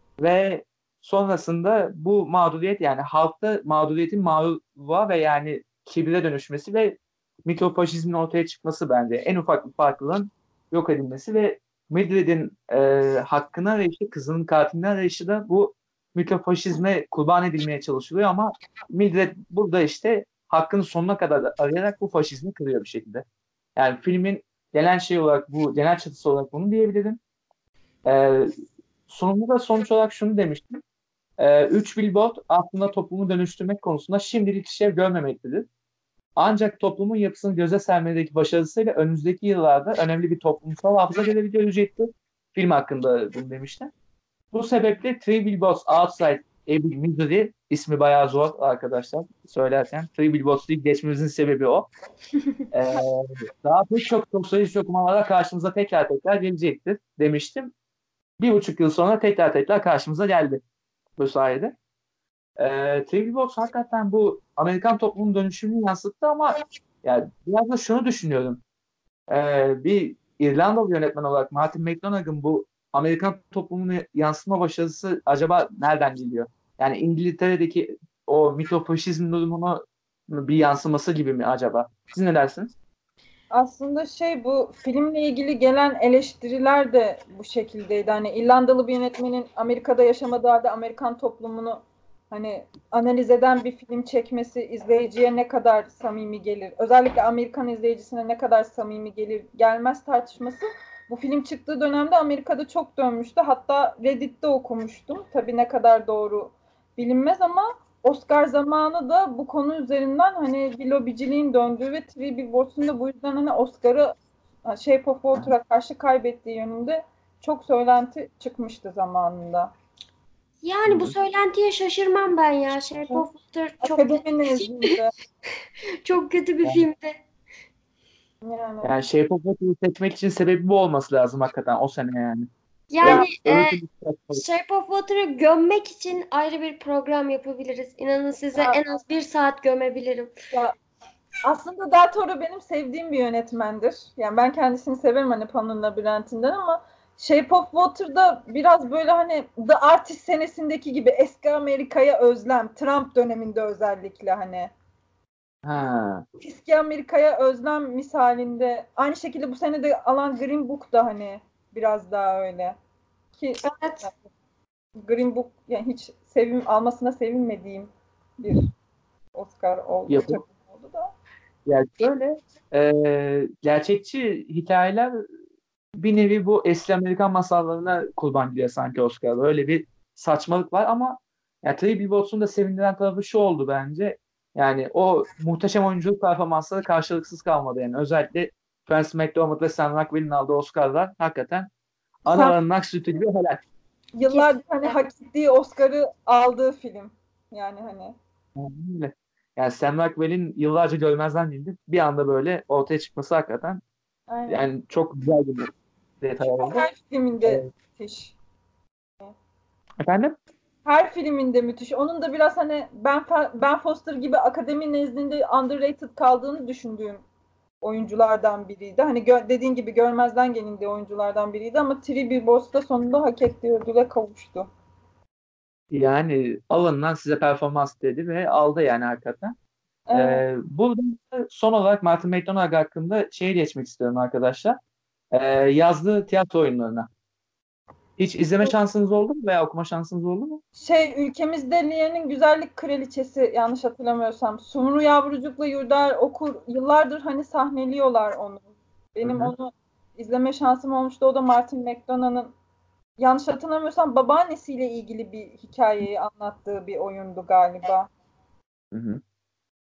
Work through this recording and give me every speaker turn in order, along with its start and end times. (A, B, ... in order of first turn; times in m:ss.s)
0:00.2-0:23.2 A
0:23.8-0:27.2 A
0:28.1-0:28.5 A
0:29.1-0:30.8 A
0:31.4-0:35.7 A
0:36.4-0:43.9 A
0:44.5-0:51.9 A
0:52.7-0:57.7 A
0:58.4-1:00.6 A
1:01.2-1:01.8 A
1:02.6-1:08.6 A
1:09.3-1:22.7 A
1:23.5-1:54.1 B
1:54.7-1:59.7 B
2:00.6-2:04.6 C
2:00.9-2:01.1 A
2:03.8-2:05.1 B
2:06.0-2:07.2 C
2:08.4-2:08.9 B
2:08.8-2:12.5 A
2:12.9-2:13.8 C
2:13.0-2:13.3 B
2:13.0-2:14.4 A
2:14.3-2:20.3 C
2:21.4-2:34.7 B
2:35.6-2:36.2 A
2:36.4-2:42.8 B
2:43.4-2:44.2 B
2:43.6-2:44.0 C
2:45.0-2:48.7 B
2:49.4-2:51.1 B
2:50.1-2:50.4 A
2:51.7-2:55.1 A
2:56.0-3:11.7 A
3:12.3-3:13.6 A
3:12.3-3:12.5 B
3:14.2-3:18.2 B
3:18.6-3:23.8 A
3:24.3-3:24.6 B
3:24.5-3:26.8 A
3:26.5-3:28.4 B
3:30.0-3:30.4 A
3:30.9-3:37.2 B
3:37.8-3:44.7 B
3:45.9-3:49.6 A
3:50.1-3:50.4 B
3:50.1-3:54.8 A
3:55.3-3:57.1 A
3:58.2-4:00.6 A
4:00.8-4:12.5 B
4:09.2-4:09.5 A
4:13.2-4:18.1 B
4:18.9-4:19.2 A